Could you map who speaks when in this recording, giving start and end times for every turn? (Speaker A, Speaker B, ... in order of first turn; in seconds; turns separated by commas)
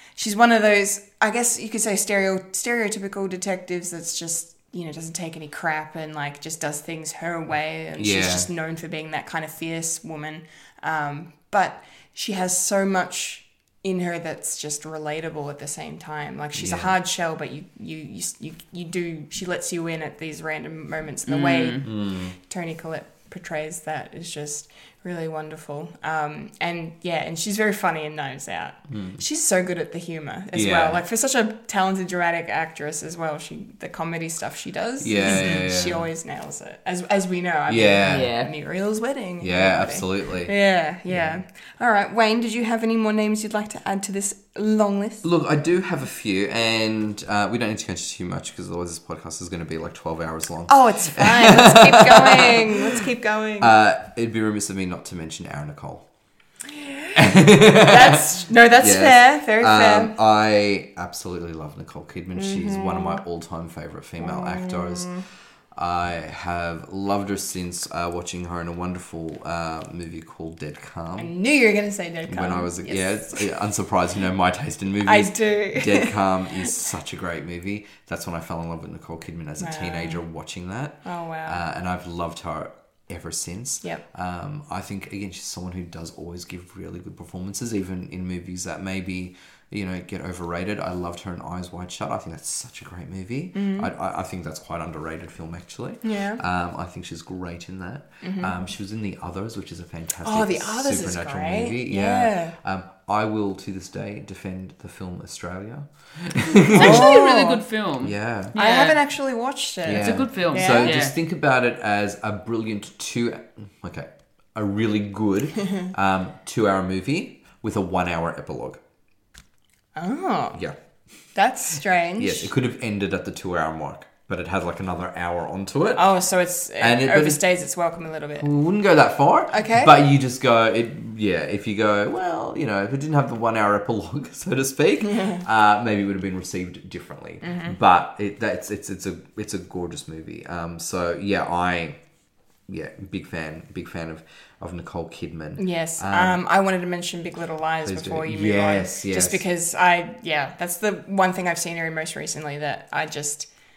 Speaker A: 0.1-45.2, Speaker B: 8.0-8.5, Speaker B: 16.6-16.9, Speaker C: 21.3-21.8, Speaker B: 21.8-22.4, Speaker B: 28.9-29.2, Speaker B: 30.5-31.0, Speaker B: 35.0-36.1, Speaker B: 37.7-38.3, Speaker C: 38.0-38.5, Speaker B: 39.4-40.5, Speaker B: 41.1-41.4, Speaker B: 45.2-52.9, Speaker A: 50.7-53.7, Speaker B: 53.6-56.1, Speaker A: 56.8-60.1, Speaker B: 57.1-58.2, Speaker B: 58.8-65.1, Speaker A: 62.4-63.2, Speaker A: 64.2-65.2, Speaker B: 65.7-71.3, Speaker A: 71.2-73.5, Speaker B: 72.3-107.1, Speaker A: 75.0-76.2, Speaker A: 79.6-80.2, Speaker A: 81.0-81.6, Speaker A: 93.5-93.9, Speaker A: 96.0-96.4, Speaker A: 98.2-98.5, Speaker A: 100.2-102.5, Speaker C: 106.7-109.0, Speaker A: 106.7-107.6, Speaker B: 108.0-108.6, Speaker A: 108.5-111.0, Speaker B: 109.8-118.8, Speaker C: 110.0-111.1, Speaker A: 120.0-120.6, Speaker A: 121.3-122.5, Speaker B: 122.2-126.1, Speaker A: 126.0-128.5, Speaker B: 126.8-127.4, Speaker B: 128.4-142.0, Speaker A: 129.5-129.9, Speaker A: 135.0-135.4, Speaker A: 137.4-137.8, Speaker B: 142.7-146.4, Speaker A: 145.6-153.5, Speaker B: 147.8-149.4